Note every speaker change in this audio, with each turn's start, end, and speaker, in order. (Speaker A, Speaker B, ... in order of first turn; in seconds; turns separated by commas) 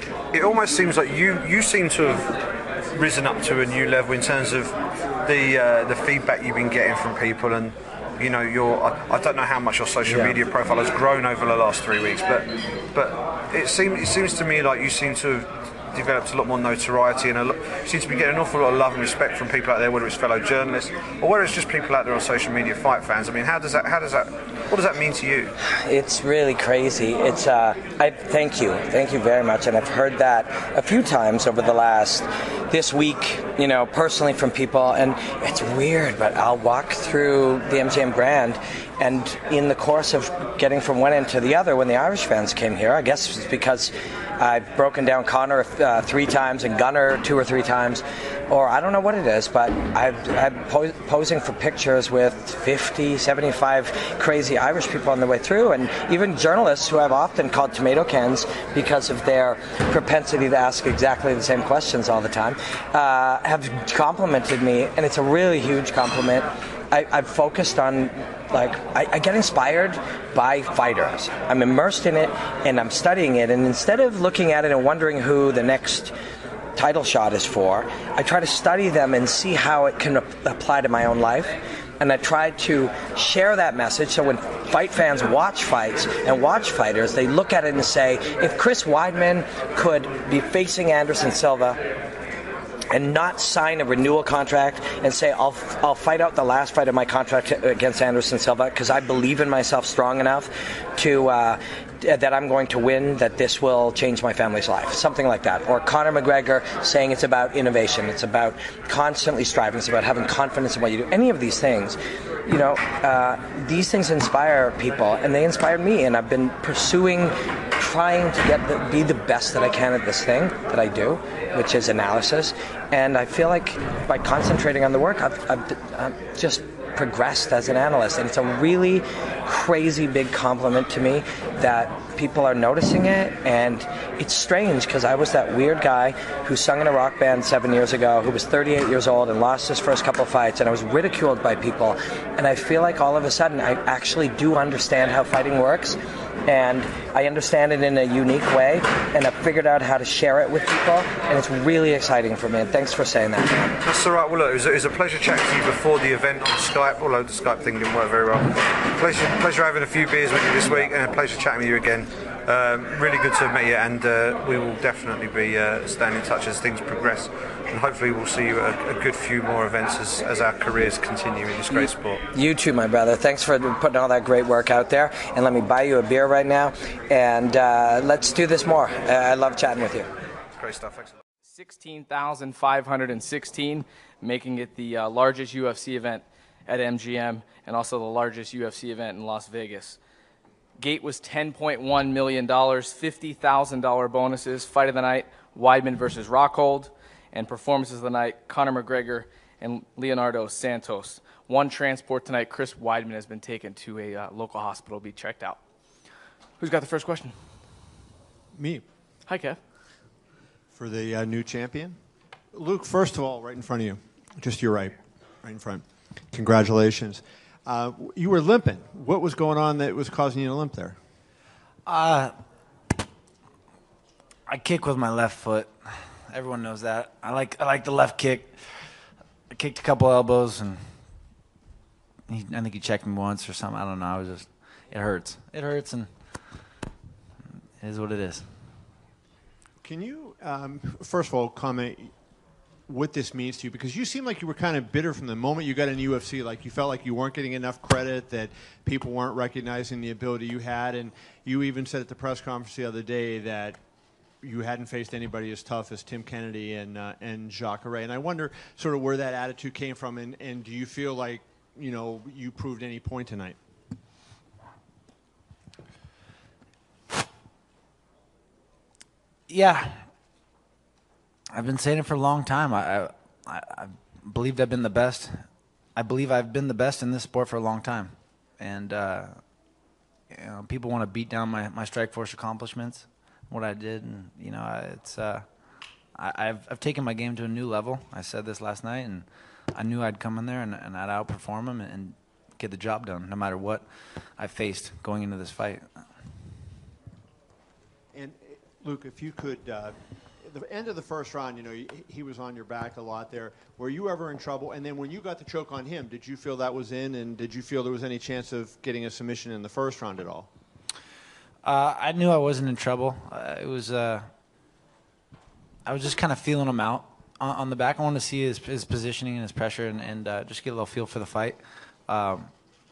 Speaker A: 0.3-2.4, Speaker A: 2.9-25.5, Speaker B: 25.8-76.2, Speaker B: 76.8-91.8, Speaker B: 92.9-153.8, Speaker A: 153.8-172.2, Speaker B: 171.7-180.1, Speaker A: 180.6-181.1, Speaker C: 181.5-190.0, Speaker C: 190.8-205.6, Speaker C: 206.6-207.4, Speaker D: 208.6-208.8, Speaker C: 209.3-209.6, Speaker D: 210.7-212.0, Speaker D: 212.5-221.0, Speaker E: 221.9-222.3, Speaker E: 224.5-228.6, Speaker E: 229.5-230.8, Speaker E: 232.3-236.1, Speaker E: 237.8-238.5, Speaker D: 239.8-242.1, Speaker D: 242.9-253.8, Speaker D: 254.4-263.6, Speaker E: 269.5-270.1, Speaker E: 271.5-279.4, Speaker E: 280.3-285.5, Speaker E: 286.2-293.9, Speaker E: 294.4-295.9, Speaker D: 298.1-310.5, Speaker E: 311.6-314.3, Speaker E: 315.9-322.5